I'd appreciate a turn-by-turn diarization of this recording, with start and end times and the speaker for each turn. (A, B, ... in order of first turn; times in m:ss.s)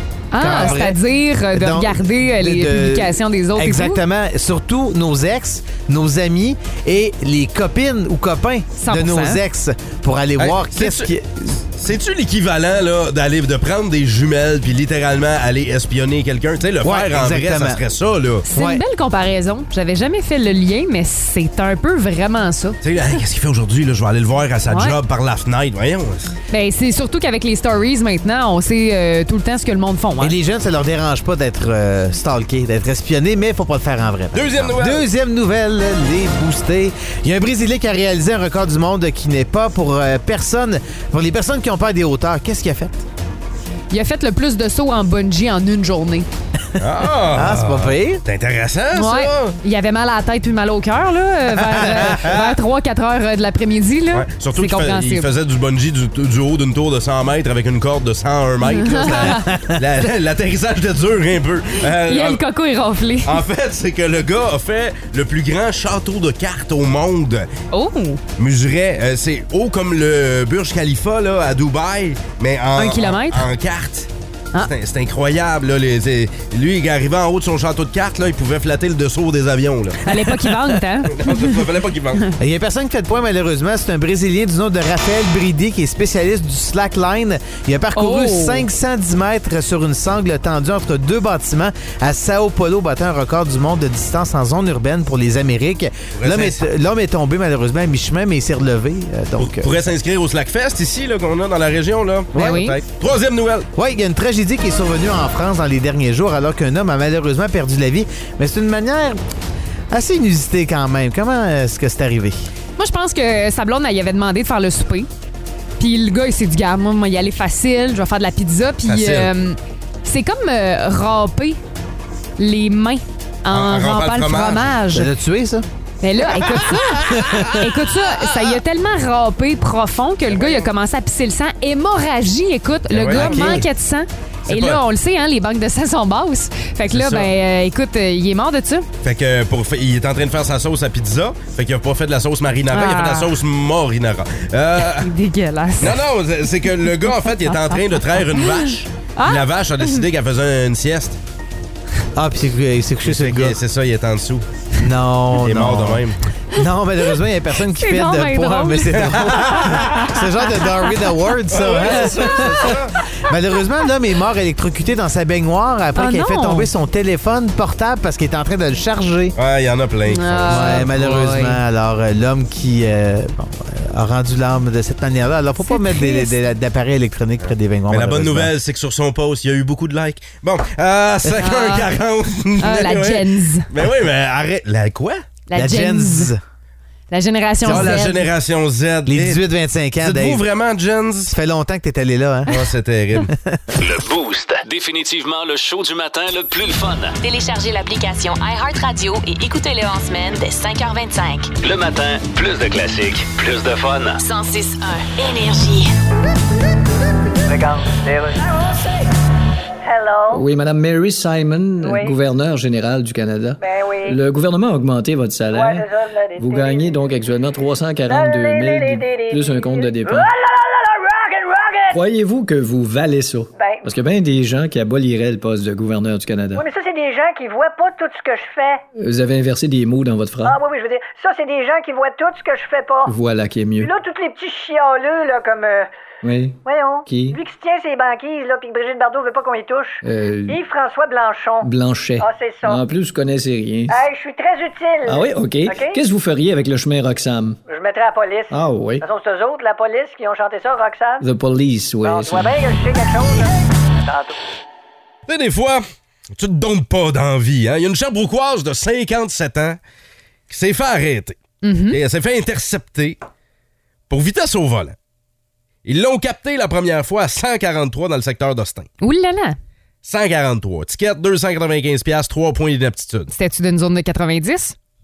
0:00.3-0:04.0 A
0:00.4-0:01.0 B
0:01.5-0:11.6 B
0:08.8-0:09.4 A
0:10.4-0:11.1 C
0:11.8-0:18.5 C
0:16.8-0:17.8 B
0:18.5-0:22.8 A
0:18.5-0:18.8 B
0:22.8-0:26.4 C
0:24.7-0:25.0 A
0:26.5-0:30.4 A
0:30.2-0:43.0 B
0:34.3-0:35.0 C
0:43.9-0:46.3 A
0:46.8-0:49.6 C
0:47.3-0:48.2 B
0:48.9-0:55.3 A
0:54.1-1:02.4 C
0:58.6-0:59.5 A
0:59.2-0:59.8 B
1:01.8-1:03.4 A
1:03.2-1:07.5 C
1:07.7-1:08.2 A
1:08.4-1:20.0 C
1:12.8-1:13.5 A
1:20.0-1:21.6 A
1:21.1-1:22.2 C
1:22.4-1:39.7 B
1:28.0-1:28.7 A
1:36.2-1:36.6 C
1:39.4-1:43.7 C
1:42.4-1:42.6 B
1:42.4-1:42.8 A
1:43.8-1:49.2 B
1:49.9-1:52.4 B
1:52.8-1:55.1 A
1:55.8-2:01.6 A
1:58.9-1:59.3 C
2:02.4-2:05.1 A
2:03.5-2:04.8 C
2:04.9-2:05.7 B
2:06.0-2:18.9 A
2:07.0-2:07.5 B
2:12.9-2:13.6 C
2:13.1-2:13.7 B
2:14.5-2:14.8 C
2:16.9-2:17.3 C
2:19.0-2:25.1 C
2:22.7-2:23.3 A
2:24.8-2:26.0 A
2:25.8-2:31.2 C
2:29.2-2:30.0 A
2:32.2-2:33.6 B
2:33.0-2:34.4 C
2:34.8-2:49.4 B
2:35.4-2:36.2 C
2:37.7-2:40.6 A
2:39.0-2:39.8 C
2:41.5-2:42.9 C
2:42.0-2:42.4 A
2:46.0-2:46.7 A
2:49.4-2:50.8 C
2:50.1-2:51.6 A
2:50.5-2:58.5 B
2:55.6-2:56.4 A
2:57.9-3:05.2 C
3:01.3-3:01.9 A
3:02.6-3:03.7 A
3:05.5-3:06.3 A
3:05.5-3:06.4 B
3:07.1-3:08.3 A
3:07.7-3:09.4 C
3:07.7-3:07.9 B
3:09.1-3:10.4 B
3:10.0-3:11.3 C
3:11.3-3:12.5 B
3:12.5-3:13.3 C
3:13.3-3:13.6 B
3:13.8-3:17.2 D
3:17.2-3:21.5 E
3:21.6-3:24.2 D
3:24.2-3:25.9 E
3:27.5-3:29.1 F
3:29.8-3:30.4 F
3:30.3-3:40.3 G
3:31.8-3:32.2 F
3:33.6-3:34.2 F
3:35.5-3:37.0 F
3:38.1-3:42.0 F
3:41.9-3:46.6 G
3:43.6-3:43.9 F
3:46.6-3:48.8 F
3:49.0-3:50.6 G
3:50.4-3:53.2 F
3:53.1-3:53.9 G
3:53.8-3:55.9 F
3:56.2-3:57.4 G
3:56.6-4:02.8 F
4:00.0-4:00.6 G
4:01.6-4:03.9 G
4:03.9-4:06.0 F
4:05.1-4:07.6 G
4:07.7-4:11.2 F
4:08.5-4:09.0 G
4:11.2-4:12.6 G
4:12.0-4:14.4 F
4:15.3-4:15.8 C
4:16.4-4:19.8 C
4:20.5-4:21.4 C
4:21.6-4:22.0 A
4:21.9-4:23.2 C
4:24.1-4:25.0 C
4:25.8-4:28.9 C
4:29.0-4:29.6 A
4:30.0-4:33.3 C
4:33.3-4:34.8 A